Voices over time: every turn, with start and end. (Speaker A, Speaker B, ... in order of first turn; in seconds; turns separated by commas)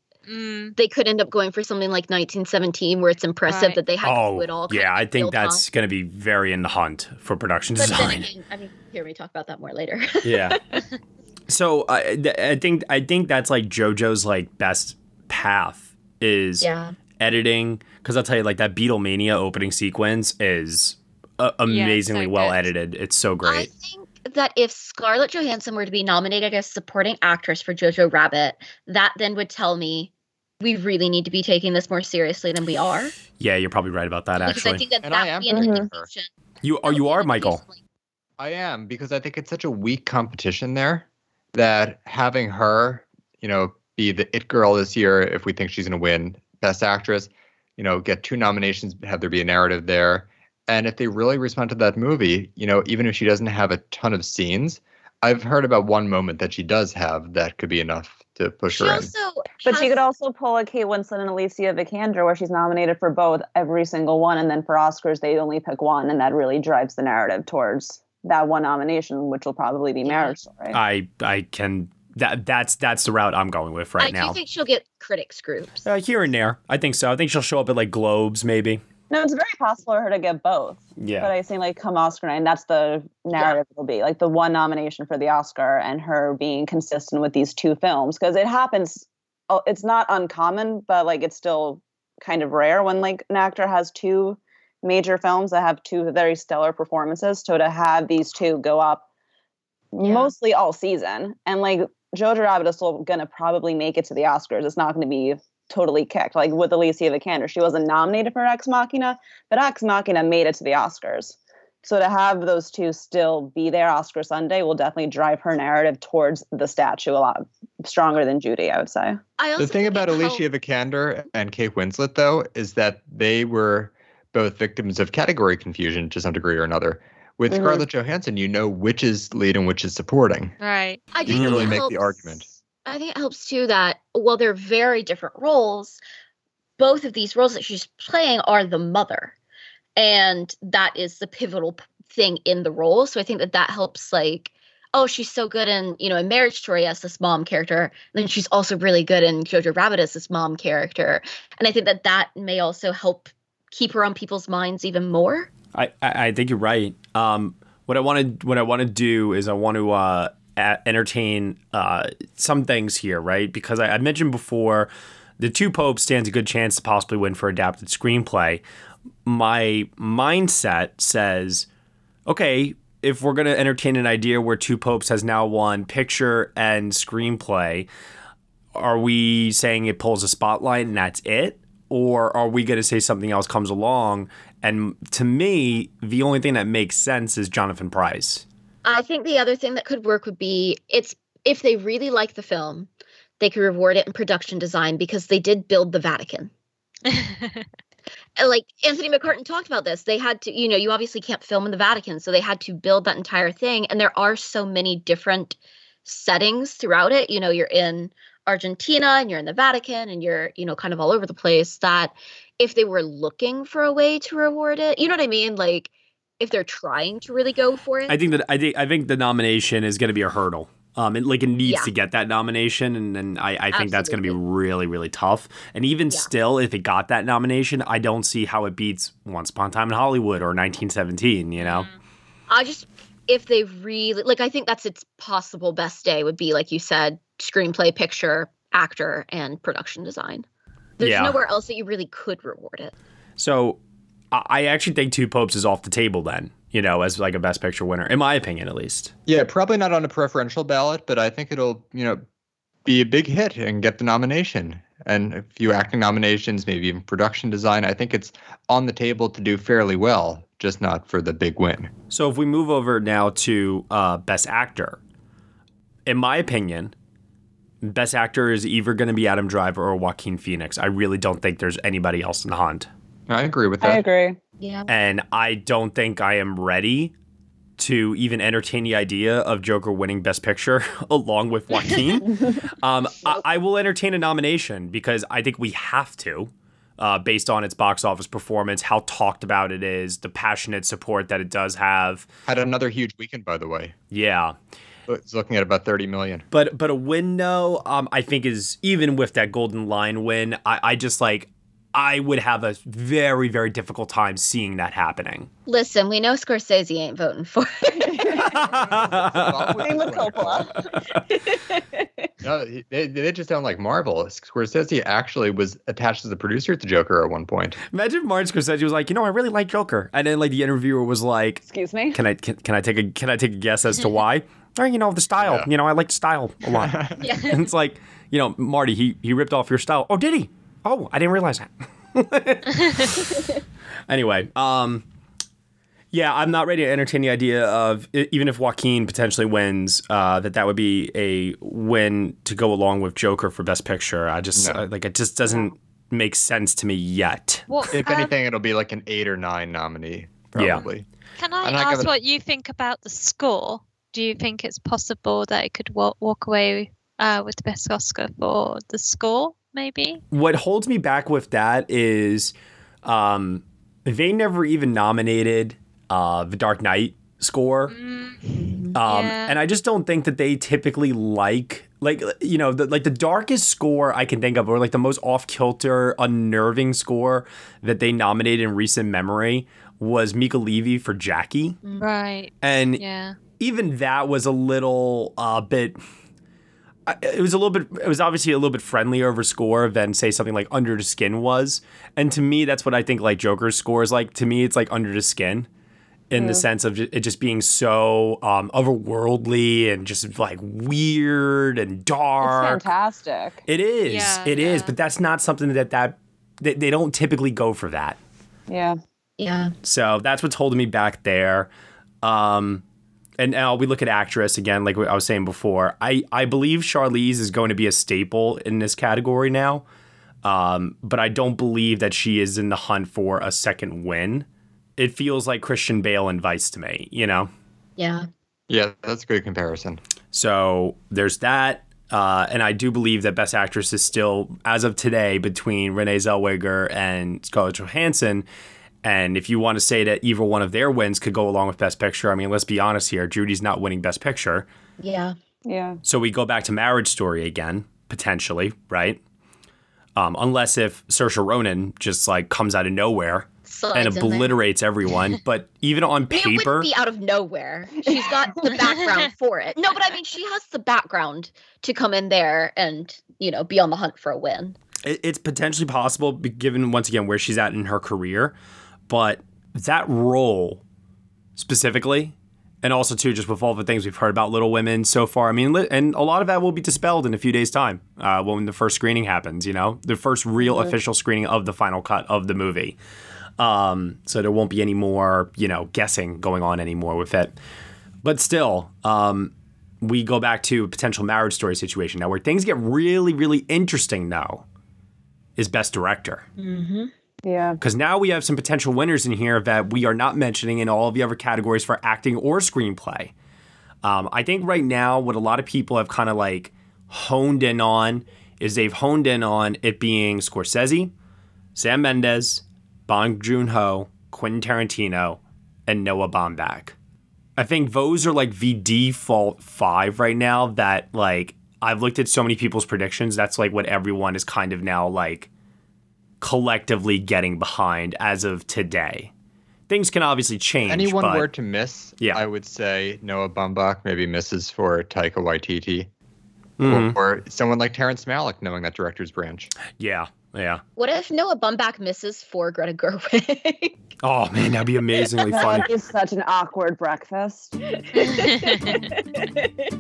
Speaker A: 0.3-0.8, Speaker B: 0.8-5.7, Speaker A: 3.5-3.8, Speaker C: 4.0-8.3, Speaker B: 7.8-10.8, Speaker C: 10.2-10.6, Speaker C: 11.5-16.7, Speaker B: 16.6-16.9, Speaker C: 17.2-23.7, Speaker A: 21.7-22.7, Speaker B: 23.4-33.1, Speaker C: 33.4-34.8, Speaker B: 34.4-36.3, Speaker D: 35.0-36.1, Speaker E: 35.5-35.9, Speaker C: 36.6-37.6, Speaker B: 36.9-37.8, Speaker D: 38.4-59.1, Speaker B: 58.7-60.0, Speaker E: 59.6-70.8, Speaker B: 70.0-70.4, Speaker C: 70.7-74.4, Speaker B: 74.0-75.9, Speaker C: 75.8-78.8, Speaker E: 79.1-99.0, Speaker C: 81.0-81.3, Speaker E: 99.9-119.2, Speaker B: 100.0-100.3, Speaker B: 119.4-120.4, Speaker D: 119.6-130.5, Speaker E: 127.5-127.8, Speaker A: 130.6-131.0, Speaker B: 131.1-136.0, Speaker D: 131.2-132.5, Speaker C: 131.3-131.8, Speaker B: 136.8-139.3, Speaker B: 140.0-155.5, Speaker C: 155.7-168.6, Speaker C: 169.2-171.7, Speaker C: 172.3-177.9, Speaker C: 178.7-188.4, Speaker B: 188.8-192.9, Speaker B: 193.4-196.5, Speaker A: 197.1-197.7, Speaker B: 198.4-215.9, Speaker B: 216.4-218.2, Speaker C: 218.1-231.9, Speaker B: 221.6-221.9, Speaker B: 223.7-224.4, Speaker A: 231.6-231.9, Speaker B: 232.5-240.5, Speaker B: 241.0-242.9, Speaker C: 241.0-241.4, Speaker C: 243.4-243.8, Speaker C: 244.3-249.1, Speaker D: 249.3-252.2, Speaker D: 252.8-261.9, Speaker C: 262.1-265.0, Speaker C: 266.1-266.9, Speaker C: 267.8-272.9, Speaker D: 273.3-274.1, Speaker E: 273.8-274.4, Speaker B: 274.6-274.9, Speaker C: 274.9-277.1, Speaker C: 277.8-292.3, Speaker D: 292.5-293.9, Speaker C: 294.1-294.6, Speaker D: 295.1-296.4, Speaker C: 296.5-305.5, Speaker B: 305.7-308.3, Speaker E: 308.1-308.4, Speaker D: 308.4-310.7, Speaker C: 308.5-310.0, Speaker E: 309.8-310.7, Speaker B: 311.3-311.8, Speaker D: 312.4-317.8, Speaker C: 317.9-333.2, Speaker E: 321.7-322.2, Speaker D: 325.4-325.7, Speaker D: 326.7-327.2, Speaker B: 327.2-327.5, Speaker C: 334.1-335.1, Speaker C: 336.1-347.6, Speaker D: 344.6-344.8, Speaker A: 347.7-348.3, Speaker D: 347.9-351.1, Speaker C: 350.6-350.9, Speaker A: 351.4-360.2, Speaker D: 351.6-352.1, Speaker C: 360.3-367.9, Speaker A: 367.9-369.6, Speaker B: 368.6-369.0, Speaker C: 368.9-381.8, Speaker A: 382.0-383.4, Speaker C: 382.6-383.0, Speaker C: 383.6-386.0, Speaker C: 387.1-395.7, Speaker C: 396.3-402.9, Speaker E: 396.4-396.6, Speaker E: 402.4-403.6, Speaker C: 403.7-408.2, Speaker A: 404.1-404.9, Speaker E: 408.7-409.0, Speaker B: 409.4-409.7, Speaker C: 409.8-411.7, Speaker C: 412.2-412.8, Speaker C: 413.4-419.9, Speaker C: 420.4-427.5, Speaker B: 428.0-428.3, Speaker D: 428.7-430.0, Speaker C: 430.3-438.5, Speaker C: 439.0-444.7, Speaker B: 445.0-445.4, Speaker E: 445.7-446.0, Speaker C: 446.1-449.2, Speaker C: 450.2-456.9, Speaker B: 453.7-454.6, Speaker B: 456.3-464.8, Speaker C: 465.0-468.6, Speaker C: 469.1-470.8, Speaker C: 471.6-483.0, Speaker C: 483.6-487.5, Speaker C: 488.2-494.6, Speaker C: 495.6-496.4, Speaker B: 496.6-497.1, Speaker E: 497.4-497.8, Speaker C: 497.8-503.3, Speaker C: 504.0-511.1, Speaker C: 511.8-517.0, Speaker C: 517.6-525.5, Speaker C: 526.4-529.3, Speaker C: 529.9-531.5, Speaker D: 530.9-536.1, Speaker C: 536.8-537.2, Speaker D: 536.8-539.7, Speaker C: 540.0-540.8, Speaker B: 541.0-544.0, Speaker C: 544.2-545.9, Speaker E: 545.5-547.8, Speaker B: 548.1-549.5, Speaker A: 548.3-548.9